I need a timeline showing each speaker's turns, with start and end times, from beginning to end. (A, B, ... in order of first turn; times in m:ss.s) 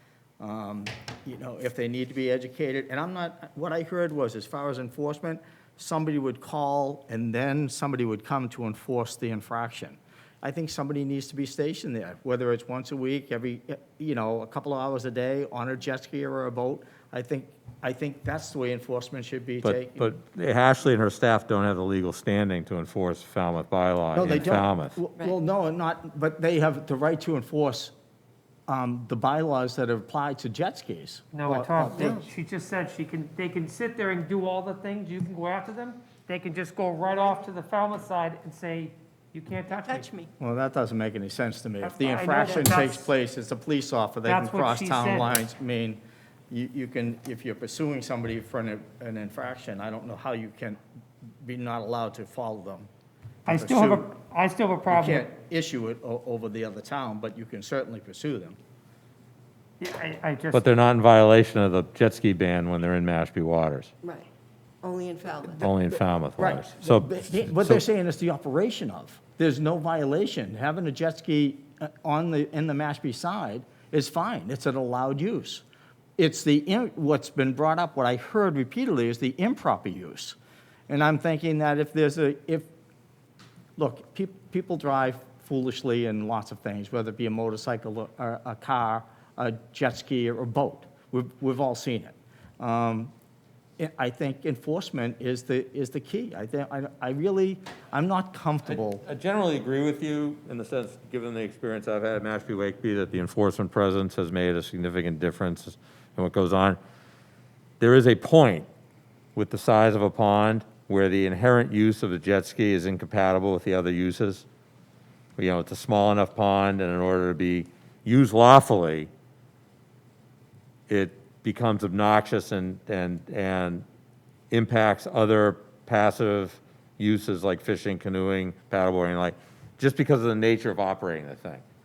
0:00.4-0:20.1 A
0:19.6-0:25.0 B
0:24.1-0:27.9 A
0:28.7-0:32.2 A
0:31.3-0:40.1 C
0:31.8-0:32.2 D
0:39.7-0:40.3 D
0:40.4-0:50.8 A
0:41.8-0:43.0 C
0:44.2-0:45.2 C
0:51.4-0:52.9 A
0:53.5-0:54.1 A
0:53.5-0:55.2 C
0:54.9-0:58.6 A
0:59.8-1:00.6 C
1:00.5-1:03.9 B
1:04.0-1:04.3 D
1:04.8-1:05.7 D
1:05.5-1:07.8 B
1:06.4-1:15.6 A
1:16.2-1:20.4 A
1:20.9-1:22.7 A
1:23.8-1:33.1 A
1:33.8-1:39.0 A
1:38.6-1:46.8 B
1:47.8-1:48.7 B
1:49.3-1:54.4 B
1:55.4-1:59.1 B
2:00.9-2:03.8 B
2:04.5-2:11.6 B